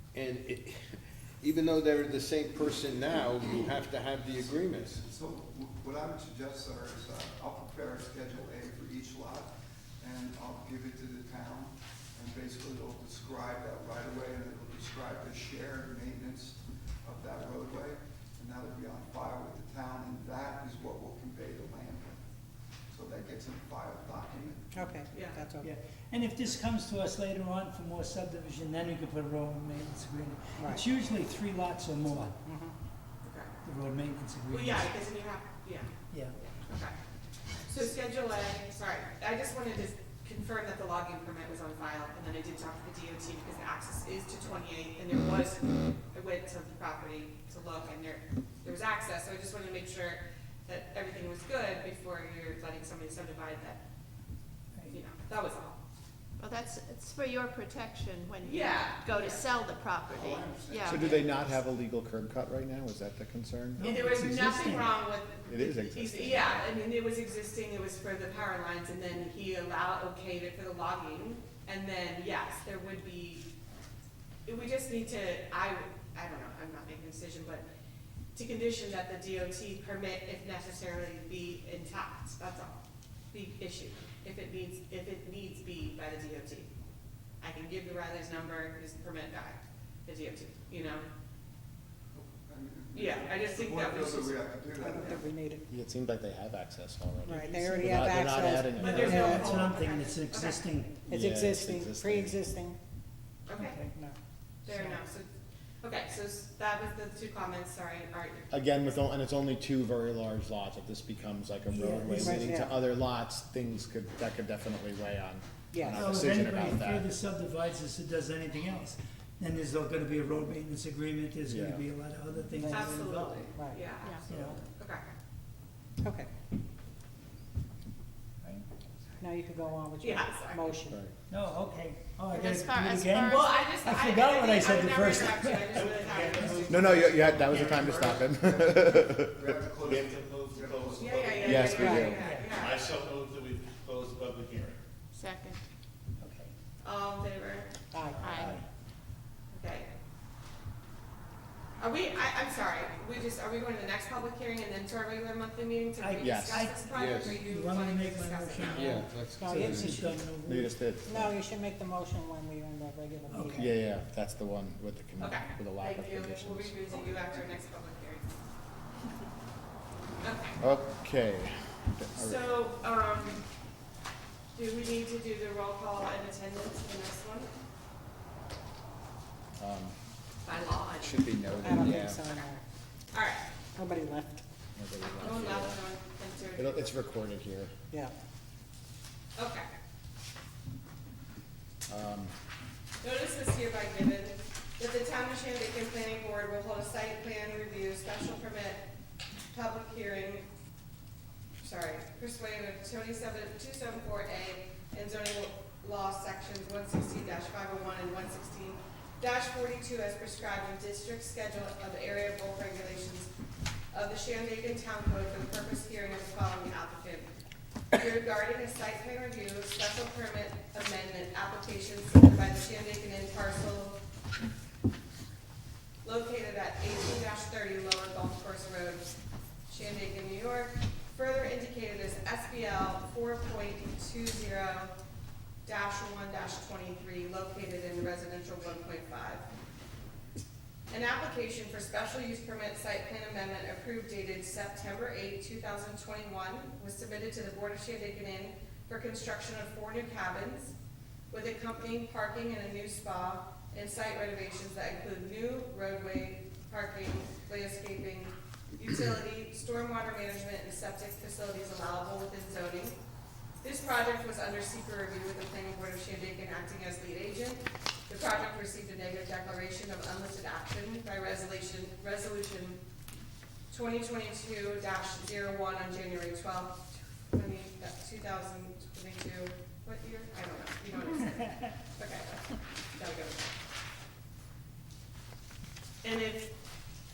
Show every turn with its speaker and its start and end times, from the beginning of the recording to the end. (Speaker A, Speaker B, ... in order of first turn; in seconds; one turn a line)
Speaker A: 0.1-5.0
Speaker B: 4.8-9.5
Speaker B: 10.0-22.2
Speaker B: 22.9-24.8
Speaker C: 24.7-25.7
Speaker D: 25.1-25.4
Speaker E: 25.6-32.4
Speaker D: 33.2-33.5
Speaker E: 33.6-34.9
Speaker D: 34.5-35.9
Speaker E: 36.1-36.3
Speaker D: 36.6-36.9
Speaker D: 37.6-53.8
Speaker D: 54.9-55.8
Speaker F: 56.4-61.1
Speaker D: 58.4-59.5
Speaker B: 60.1-61.4
Speaker G: 60.9-63.9
Speaker E: 63.7-65.0
Speaker D: 63.8-73.4
Speaker G: 65.5-66.7
Speaker D: 74.5-77.6
Speaker D: 78.3-82.8
Speaker D: 83.3-86.7
Speaker D: 87.4-91.0
Speaker B: 92.1-95.2
Speaker D: 92.9-94.4
Speaker C: 94.8-95.6
Speaker G: 95.7-99.7
Speaker C: 97.3-99.5
Speaker E: 97.4-101.0
Speaker D: 98.8-100.6
Speaker G: 101.1-102.4
Speaker C: 101.1-102.8
Speaker D: 103.5-103.8
Speaker E: 103.5-104.0
Speaker D: 104.6-105.3
Speaker D: 105.8-108.4
Speaker G: 108.5-117.1
Speaker C: 111.7-112.7
Speaker E: 112.1-112.5
Speaker C: 115.7-116.0
Speaker E: 115.9-123.5
Speaker G: 121.5-121.8
Speaker D: 122.6-125.0
Speaker C: 123.5-123.9
Speaker F: 123.9-124.3
Speaker E: 124.2-124.6
Speaker C: 129.2-130.9
Speaker D: 130.0-130.6
Speaker E: 131.3-136.7
Speaker F: 132.3-133.7
Speaker D: 133.2-137.0
Speaker H: 135.7-138.3
Speaker G: 136.7-139.6
Speaker B: 137.5-141.8
Speaker H: 139.8-141.9
Speaker D: 141.0-142.8
Speaker G: 141.4-142.2
Speaker C: 141.8-142.2
Speaker E: 142.0-142.5
Speaker H: 142.6-144.8
Speaker F: 145.1-145.6
Speaker E: 146.2-146.5
Speaker D: 146.8-147.7
Speaker C: 147.9-148.2
Speaker E: 148.0-148.6
Speaker F: 148.2-148.5
Speaker D: 149.5-149.9
Speaker D: 151.8-159.0
Speaker E: 156.0-160.7
Speaker G: 156.2-156.7
Speaker A: 156.9-157.4
Speaker A: 158.6-160.0
Speaker C: 159.4-160.2
Speaker G: 160.4-161.4
Speaker C: 161.1-163.6
Speaker E: 163.3-163.7
Speaker G: 163.5-167.1
Speaker D: 165.2-168.3
Speaker D: 170.2-170.6
Speaker G: 170.6-172.4
Speaker D: 172.2-173.4
Speaker D: 174.5-177.5
Speaker G: 179.6-180.0
Speaker D: 180.4-181.2
Speaker G: 181.0-182.2
Speaker C: 181.6-182.6
Speaker D: 182.1-182.5
Speaker D: 183.1-183.4
Speaker C: 183.8-184.4
Speaker G: 184.8-185.8
Speaker D: 185.2-186.8
Speaker G: 186.6-187.7
Speaker D: 189.4-189.7
Speaker G: 191.9-192.3
Speaker D: 193.0-198.8
Speaker D: 199.5-200.4
Speaker D: 201.6-213.3
Speaker D: 213.9-217.3
Speaker D: 217.9-224.0
Speaker D: 226.0-229.1
Speaker D: 229.7-234.9
Speaker D: 235.6-239.4
Speaker D: 240.9-250.7
Speaker D: 251.3-263.0
Speaker D: 263.6-272.8
Speaker D: 273.7-283.5
Speaker D: 286.0-286.5